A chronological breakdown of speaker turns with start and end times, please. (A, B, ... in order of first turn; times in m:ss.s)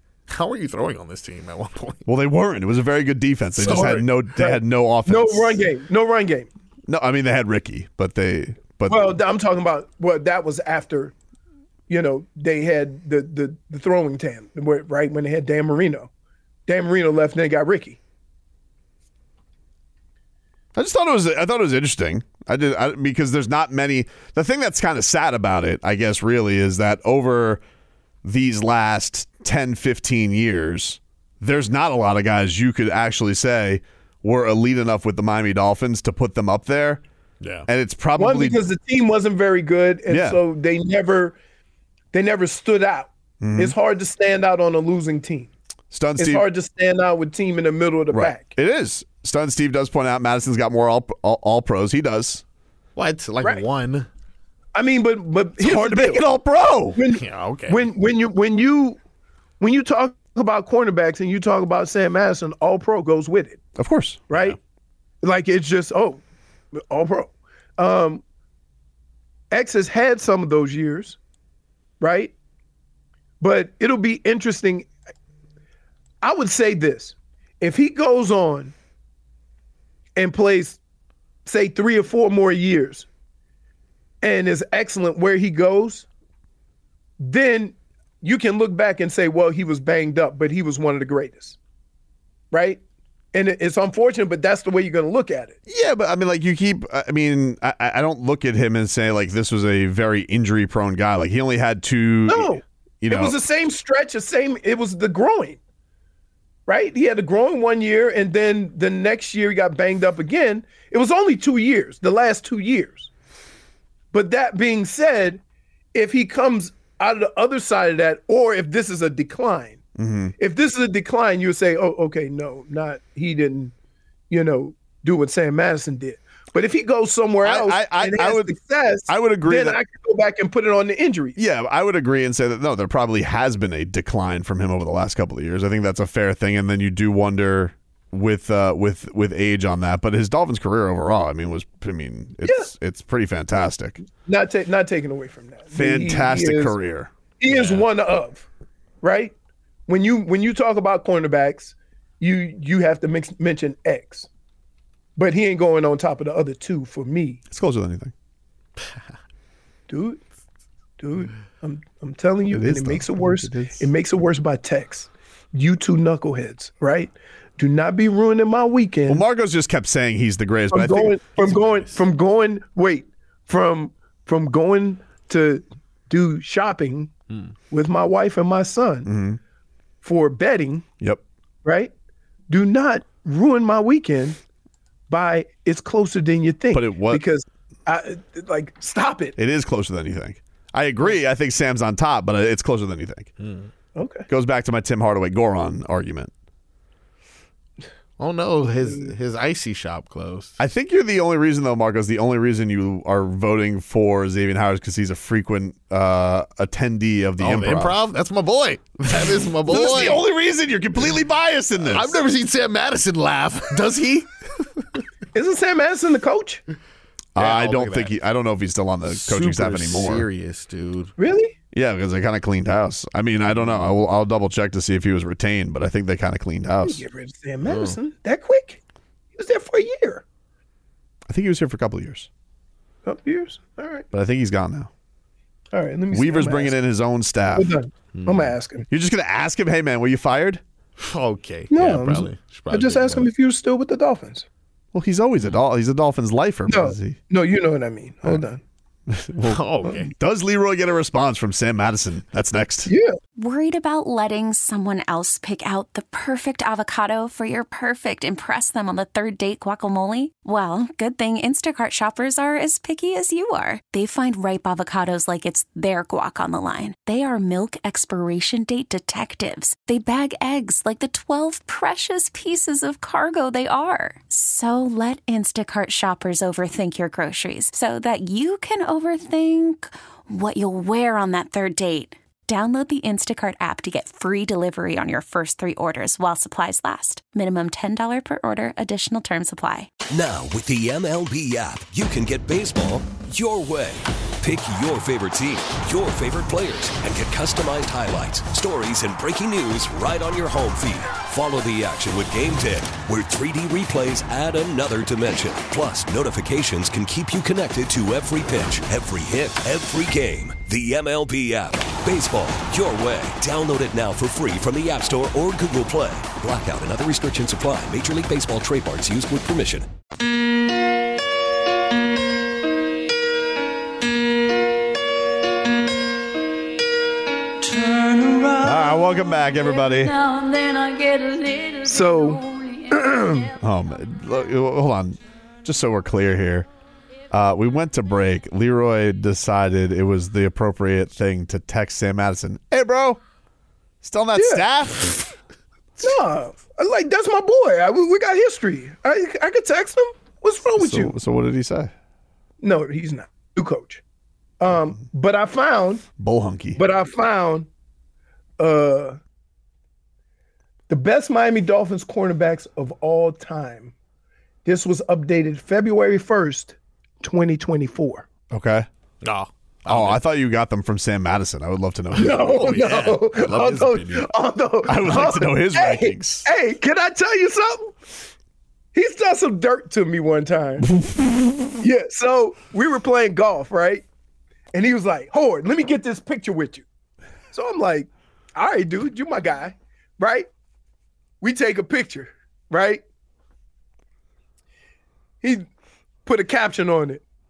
0:00.3-0:02.1 A
0:02.1-0:05.6 B
0:03.6-0:06.5 C
0:03.6-0:04.0 A
0:06.9-0:09.2 B
0:08.9-0:11.1 C
0:11.9-0:16.1 C
0:16.7-0:18.0 C
0:20.8-0:27.6 B
0:28.2-0:37.0 B
0:37.4-0:37.7 A
0:37.7-0:38.6 B
0:38.2-0:41.4 C
0:40.1-0:40.4 B
0:42.1-0:45.5 C
0:43.4-0:43.8 B
0:45.9-0:46.5 B
0:46.2-0:48.5 C
0:48.1-0:52.4 B
0:53.0-0:54.1 A
0:54.8-0:56.2 C
0:55.6-0:57.0 B
0:57.0-0:59.0 C
0:57.1-0:57.9 A
0:59.6-1:03.6 C
1:03.8-1:04.3 B
1:04.3-1:04.6 C
1:04.3-1:04.6 A
1:05.2-1:06.2 C
1:06.8-1:08.2 C
1:09.5-1:11.2 C
1:12.0-1:12.3 C
1:13.4-1:14.9 C
1:16.2-1:18.7 C
1:20.2-1:20.8 C
1:21.4-1:23.1 C
1:24.2-1:26.1 C
1:27.2-1:31.6 C
1:32.5-1:32.8 C
1:33.3-1:35.6 C
1:35.7-1:43.4 B
1:42.3-1:45.6 C
1:46.7-1:53.1 C
1:54.1-1:55.4 C
1:55.9-1:59.8 C
2:00.0-2:00.3 B
2:00.4-2:03.7 C
2:04.3-2:11.4 C
2:07.4-2:08.6 B
2:09.1-2:09.8 B
2:11.4-2:24.0 B
2:22.4-2:22.7 C
2:24.2-2:26.8 C
2:25.7-2:27.1 B
2:27.4-2:28.5 C
2:27.5-2:27.8 A
2:29.0-2:29.3 C
2:29.9-2:34.3 C
2:35.2-2:37.4 C
2:37.5-2:38.1 B
2:39.9-2:40.2 C
2:41.0-2:49.2 C
2:42.5-2:43.9 B
2:49.1-2:51.2 B
2:50.7-2:57.1 C
2:51.4-2:52.0 A
2:57.7-2:59.1 C
2:59.0-2:59.4 B
3:00.0-3:00.8 C
3:01.6-3:01.9 C
3:02.5-3:04.4 C
3:05.1-3:09.4 C
3:06.7-3:07.2 B
3:09.4-3:13.3 B
3:13.4-3:13.7 A
3:14.0-3:14.3 C
3:14.3-3:16.3 B
3:18.2-3:20.6 A
3:20.6-3:28.0 B
3:27.4-3:30.2 A
3:29.7-3:32.2 B
3:31.8-3:34.8 A
3:35.3-3:36.6 C
3:37.4-3:40.3 B
3:37.4-3:38.1 A
3:39.1-3:41.1 A
3:41.2-3:41.5 C
3:41.7-3:47.0 B
3:43.5-3:43.9 A
3:46.8-3:48.8 C
3:47.6-3:48.0 A
3:49.4-3:50.2 C
3:51.3-3:52.3 B
3:53.0-3:54.1 C
3:54.1-3:54.9 B
3:55.7-3:56.8 C
3:56.1-3:57.7 B
3:57.6-3:58.9 C
3:58.1-3:58.5 A
3:58.9-4:00.6 B
4:01.0-4:03.3 A
4:01.7-4:04.5 C
4:04.9-4:07.2 B
4:06.7-4:08.6 C
4:09.1-4:12.9 B
4:09.5-4:10.1 A
4:12.9-4:13.2 C
4:13.4-4:49.9 D
4:50.1-5:19.9 E
5:28.5-5:30.4 B
5:31.8-5:33.5 C
5:33.6-5:36.7 B
5:37.3-5:43.2 B
5:44.0-5:45.3 B
5:44.4-5:44.7 C
5:46.0-5:51.2 C
5:50.8-5:51.9 B
5:52.6-5:54.0 C
5:54.6-5:56.0 C
5:56.2-5:56.8 B
5:56.8-5:57.7 C
5:58.6-5:59.2 C
6:00.9-6:03.9 C
6:04.6-6:08.2 C
6:08.5-6:08.9 B
6:09.2-6:10.2 A
6:09.9-6:12.8 B
6:12.2-6:18.0 C
6:12.2-6:14.3 A
6:14.8-6:16.5 B
6:18.9-6:20.9 C
6:20.9-6:21.6 B
6:21.8-6:24.0 C
6:24.7-6:26.8 C
6:27.5-6:30.5 C
6:31.4-6:33.0 C
6:36.2-6:37.2 C